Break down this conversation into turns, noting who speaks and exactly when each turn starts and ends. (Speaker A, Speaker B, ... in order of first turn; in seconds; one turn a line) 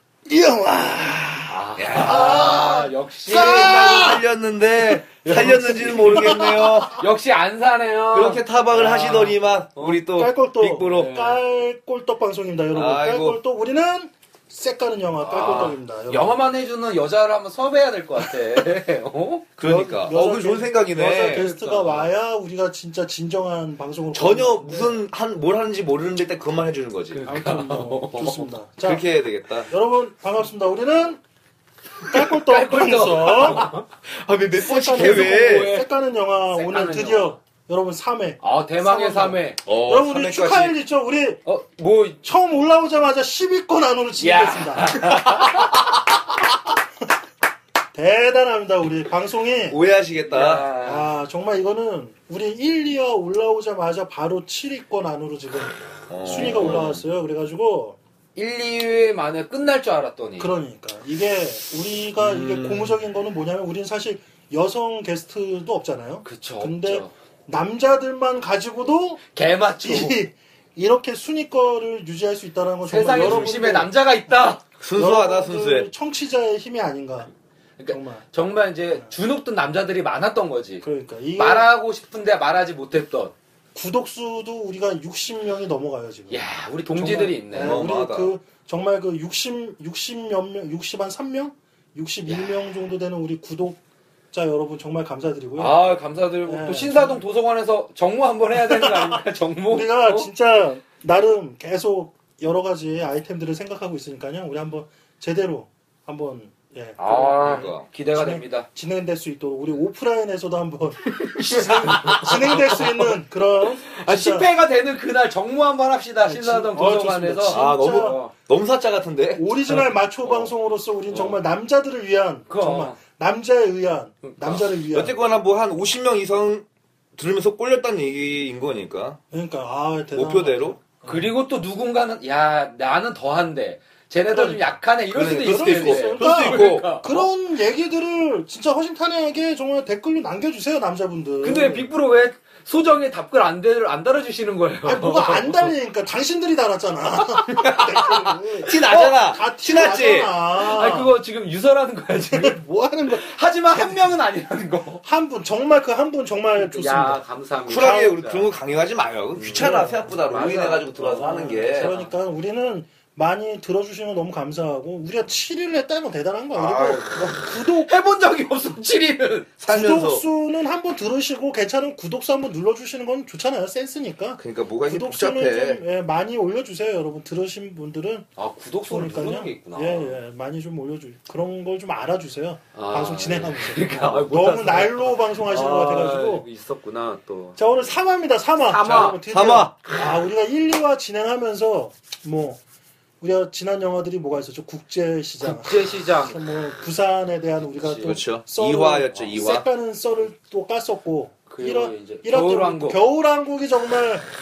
Speaker A: 0.3-4.2
Speaker B: 1.5-4.2
Speaker C: 1.8-2.6
Speaker C: 3.3-7.0
Speaker A: 4.9-6.9
Speaker B: 5.3-8.4
Speaker C: 8.1-11.2
Speaker A: 8.8-16.4
Speaker B: 10.9-11.4
Speaker C: 12.7-13.4
Speaker B: 15.2-19.5
Speaker C: 19.6-21.5
Speaker A: 19.6-24.9
Speaker B: 21.3-22.1
Speaker C: 24.1-27.2
Speaker B: 27.1-28.5
Speaker A: 27.3-29.0
Speaker C: 28.8-29.7
Speaker A: 29.7-31.2
Speaker A: 32.0-33.7
Speaker B: 32.1-33.9
Speaker C: 33.6-35.8
Speaker A: 34.5-41.4
Speaker B: 34.9-35.8
Speaker B: 36.5-37.4
Speaker B: 38.4-39.6
Speaker C: 39.7-40.8
Speaker B: 41.5-42.2
Speaker A: 42.2-45.2
Speaker B: 44.2-46.0
Speaker A: 47.9-49.8
Speaker C: 49.7-50.7
Speaker B: 50.3-51.1
Speaker A: 50.8-58.0
Speaker C: 56.1-57.0
Speaker B: 58.4-60.5
Speaker A: 60.4-69.2
Speaker C: 62.2-63.0
Speaker B: 66.2-67.1
Speaker B: 69.3-70.2
Speaker A: 69.8-73.9
Speaker B: 72.9-74.6
Speaker C: 73.2-73.5
Speaker C: 74.8-75.9
Speaker A: 75.0-77.3
Speaker B: 77.8-80.8
Speaker A: 77.9-78.2
Speaker A: 80.8-81.7
Speaker B: 81.4-83.3
Speaker A: 83.8-86.4
Speaker B: 86.3-87.9
Speaker A: 87.0-93.8
Speaker C: 87.5-88.3
Speaker B: 92.3-92.7
Speaker A: 94.3-95.8
Speaker B: 95.6-100.3
Speaker A: 96.5-97.2
Speaker A: 98.5-114.5
Speaker B: 107.0-108.7
Speaker C: 107.4-107.9
Speaker B: 111.8-113.1
Speaker B: 113.9-118.3
Speaker A: 116.3-118.2
Speaker C: 117.5-119.5
Speaker A: 119.4-125.2
Speaker B: 122.5-123.0
Speaker B: 124.2-124.7
Speaker C: 124.7-129.2
Speaker A: 129.3-131.3
Speaker C: 130.1-130.8
Speaker B: 131.0-137.2
Speaker A: 134.3-134.6
Speaker C: 135.1-137.3
Speaker A: 135.3-141.9
Speaker B: 141.4-145.7
Speaker A: 144.8-151.2
Speaker C: 147.6-148.1
Speaker C: 148.7-150.3
Speaker B: 148.9-149.2
Speaker B: 150.6-155.0
Speaker A: 152.3-154.1
Speaker A: 155.0-158.2
Speaker B: 156.6-158.5
Speaker C: 157.7-161.9
Speaker B: 159.4-162.1
Speaker A: 159.4-167.9
Speaker C: 166.6-167.1
Speaker B: 167.1-169.5
Speaker C: 169.6-170.2
Speaker A: 169.7-178.3
Speaker C: 174.4-175.8
Speaker B: 178.4-180.2
Speaker A: 178.9-186.5
Speaker B: 182.8-187.6
Speaker A: 187.6-192.6
Speaker B: 188.7-189.2
Speaker C: 189.0-189.8
Speaker A: 193.2-204.2
Speaker B: 195.4-196.4
Speaker B: 197.8-198.2
Speaker C: 198.1-199.7
Speaker B: 201.5-203.0